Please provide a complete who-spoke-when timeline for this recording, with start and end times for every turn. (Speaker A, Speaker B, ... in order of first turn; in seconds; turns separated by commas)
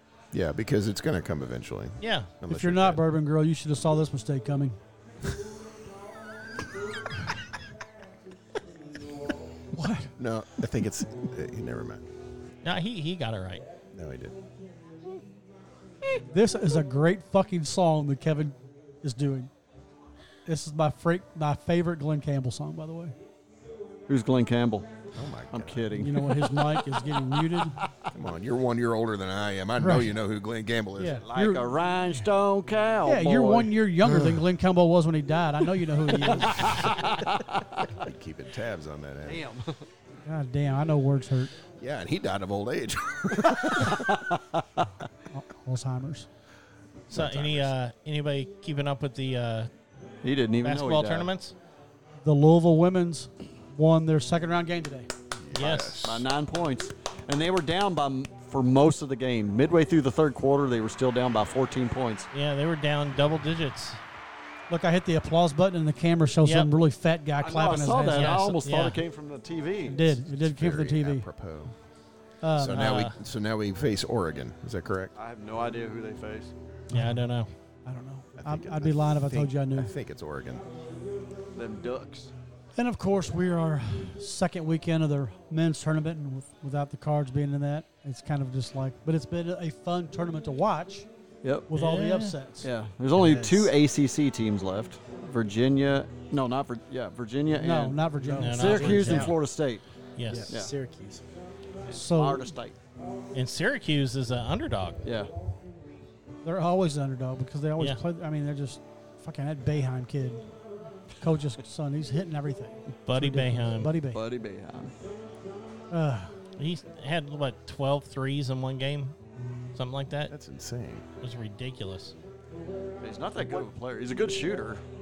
Speaker A: 0.3-3.0, Speaker B: 2.0-2.3, Speaker C: 2.5-4.8, Speaker C: 9.7-10.1, Speaker A: 10.2-12.0, Speaker B: 12.6-13.6, Speaker A: 13.9-14.3, Speaker C: 16.3-19.5, Speaker C: 20.4-23.1, Speaker D: 24.1-24.9, Speaker A: 25.1-25.9, Speaker D: 25.5-27.7, Speaker C: 25.9-27.8, Speaker A: 28.1-31.2, Speaker C: 29.8-30.1, Speaker C: 31.0-31.7, Speaker D: 31.1-33.7, Speaker C: 33.0-36.8, Speaker D: 36.1-37.9, Speaker A: 37.9-39.4, Speaker D: 39.2-39.9, Speaker C: 40.2-41.5, Speaker A: 41.8-44.1, Speaker D: 43.7-44.8, Speaker C: 45.3-46.3, Speaker A: 47.1-47.7, Speaker B: 47.1-49.7, Speaker D: 50.2-51.3, Speaker B: 50.6-51.5, Speaker C: 52.2-55.1, Speaker A: 55.4-56.3, Speaker B: 55.5-56.1, Speaker D: 56.0-62.3, Speaker B: 62.3-64.0, Speaker C: 64.7-68.5, Speaker B: 66.4-66.7, Speaker D: 67.4-70.1, Speaker B: 68.0-69.0, Speaker C: 69.8-71.3, Speaker A: 70.2-71.7, Speaker C: 72.4-72.8, Speaker A: 72.5-75.1, Speaker B: 72.7-73.1, Speaker D: 75.2-76.5, Speaker C: 76.9-77.2, Speaker B: 76.9-77.5, Speaker C: 77.8-79.9, Speaker A: 78.3-80.6, Speaker D: 81.5-82.3, Speaker C: 82.7-91.1, Speaker D: 91.4-91.7, Speaker C: 91.7-92.7, Speaker B: 91.7-92.3, Speaker D: 92.6-99.8, Speaker E: 93.1-93.7, Speaker C: 97.5-99.3, Speaker E: 98.2-98.7, Speaker B: 98.4-99.4, Speaker B: 100.2-100.5, Speaker E: 100.3-101.2, Speaker D: 100.5-100.7, Speaker D: 101.8-102.8, Speaker C: 101.9-102.5, Speaker B: 103.3-105.0, Speaker D: 105.0-105.3, Speaker C: 106.4-110.4, Speaker C: 111.2-114.2, Speaker B: 113.0-113.9, Speaker D: 114.1-114.9, Speaker C: 115.9-116.3, Speaker B: 116.6-119.2, Speaker B: 119.7-120.3, Speaker A: 120.3-121.0, Speaker B: 121.2-122.1, Speaker D: 123.0-124.8